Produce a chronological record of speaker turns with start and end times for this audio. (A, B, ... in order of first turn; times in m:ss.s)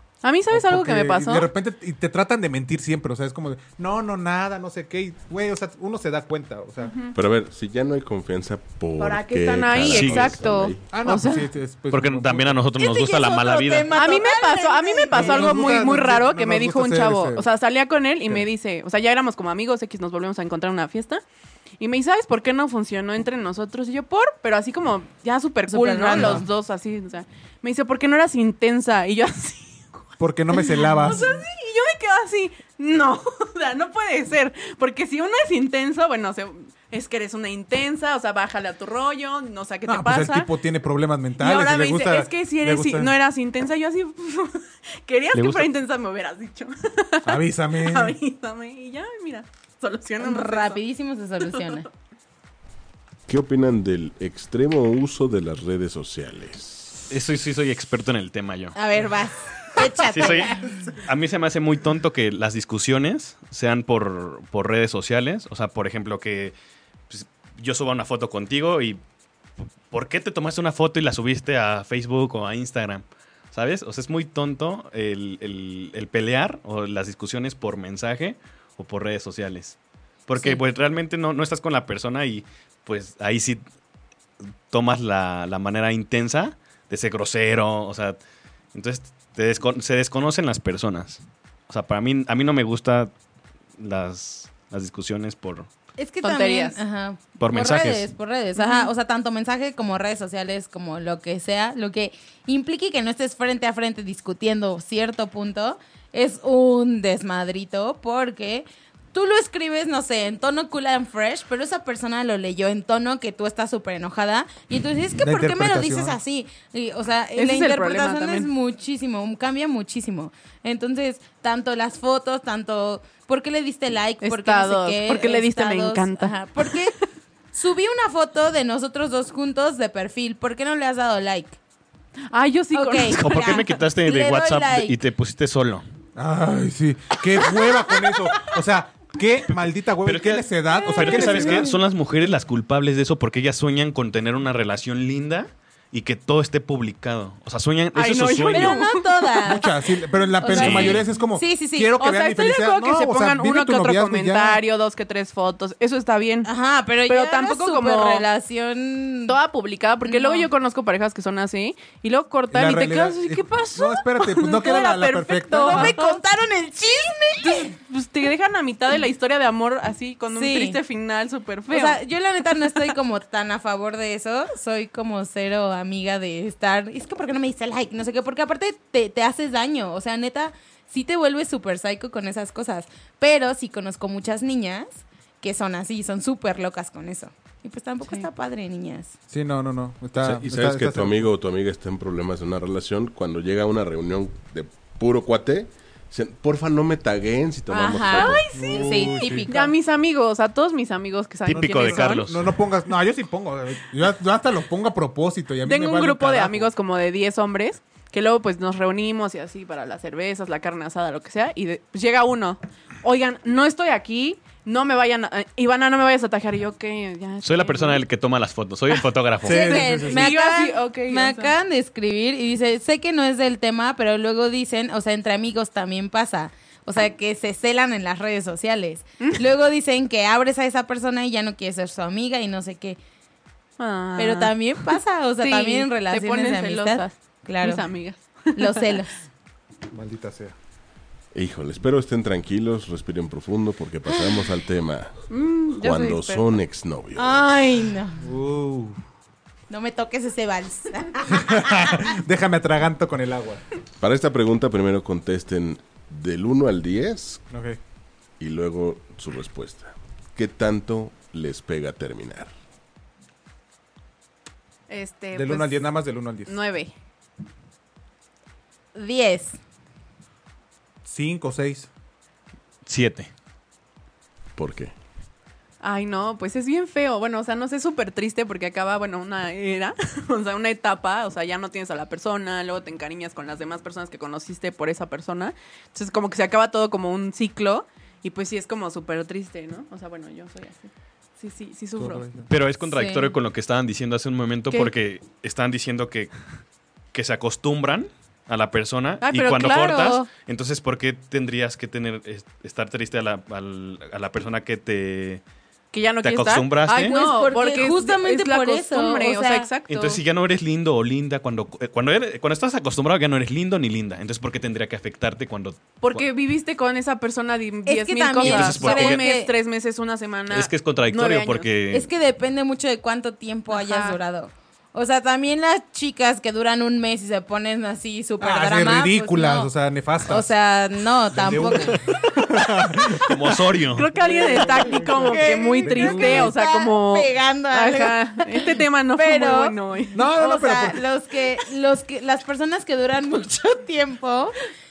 0:00.2-0:01.5 A
0:00.5-0:07.0 B
0:06.8-0:07.1 A
0:07.1-0:10.8 C
0:09.0-0:11.5 A
0:09.3-0:09.9 D
0:10.0-0:10.3 E
0:10.9-0:12.6 B
0:11.9-0:14.1 E
0:12.8-0:15.9 D
0:13.9-0:21.2 A
0:15.1-0:17.5 B
0:21.8-0:40.5 A
0:25.7-0:26.5 D
0:26.2-0:26.4 B
0:30.2-0:31.4 B
0:39.9-0:43.1 B
0:41.4-0:50.8 A
0:45.3-0:45.7 E
0:47.2-0:48.2 B
0:50.2-0:51.9 D
0:51.4-0:51.8 A
0:53.3-0:56.9 C
0:57.1-0:58.8 E
0:58.8-1:00.8 D
1:00.0-1:06.5 E
1:07.1-1:09.0 E
1:09.9-1:23.6 E
1:24.7-1:28.2 E
1:28.7-1:33.1 E
1:33.8-1:35.7 E
1:36.0-2:07.0 D
1:36.2-1:36.8 A
1:37.4-1:38.1 E
1:38.6-1:38.9 A
1:55.2-1:56.2 B
1:57.4-1:58.5 A
2:04.2-2:06.9 A
2:07.5-2:11.6 D
2:12.3-2:13.8 A
2:12.7-2:15.0 D
2:13.1-2:15.8 E
2:16.2-2:21.7 B
2:20.0-2:28.8 E
2:20.7-2:21.8 D
2:28.0-2:29.3 A
2:28.5-2:29.7 D
2:29.4-2:34.6 B
2:30.3-2:32.0 D
2:30.5-2:31.0 E
2:32.0-2:36.5 A
2:36.4-2:39.4 D
2:37.1-2:38.3 A
2:39.3-2:46.2 A
2:40.1-2:40.5 D
2:42.5-2:46.0 B
2:45.6-2:47.7 D
2:47.4-2:52.0 A
2:50.3-2:50.8 D
2:51.7-3:09.1 D
3:09.3-3:11.3 B
3:10.2-3:18.5 C
3:17.7-3:19.7 D
3:18.1-3:18.8 A
3:18.5-3:19.5 B
3:19.5-3:22.3 A
3:21.4-3:22.4 E
3:21.9-3:26.7 B
3:25.6-3:38.0 A
3:37.4-3:40.0 E
3:39.4-3:40.3 B
3:39.4-3:53.0 D
3:39.6-3:41.5 A
3:53.8-3:54.9 A
3:54.2-3:57.8 D
3:55.4-3:59.0 A
3:58.6-3:59.2 D
3:59.9-4:00.6 B
4:01.3-4:05.2 C
4:05.3-4:06.5 A
4:05.7-4:07.4 C
4:07.2-4:08.2 D
4:08.2-4:09.0 B
4:09.7-4:12.1 D
4:11.3-4:13.6 B
4:14.0-4:17.4 C
4:17.5-4:17.8 B
4:18.4-4:22.5 C
4:24.9-4:25.7 A
4:25.3-4:26.6 B
4:26.4-4:26.9 A
4:28.9-4:29.6 D
4:31.0-4:31.9 B
4:32.9-4:33.3 E
4:34.6-4:34.9 C
4:35.8-4:52.3 A
4:52.0-4:52.5 B
4:52.5-4:56.3 E
4:52.9-4:53.3 D
4:57.1-5:05.4 E
4:59.2-5:00.3 A
5:05.9-5:10.2 A
5:06.2-5:07.2 E
5:07.0-5:09.7 D
5:09.9-5:16.2 E
5:16.0-5:21.7 A
5:17.9-5:19.5 D
5:18.4-5:19.3 E
5:20.5-5:22.1 E
5:21.9-5:29.7 D
5:23.7-5:24.2 A
5:28.4-5:30.5 B
5:30.3-5:32.2 D
5:31.3-5:33.6 B
5:33.2-5:34.1 E
5:33.9-5:40.3 A
5:34.2-5:36.5 B
5:35.3-5:44.6 D
5:40.1-5:41.0 B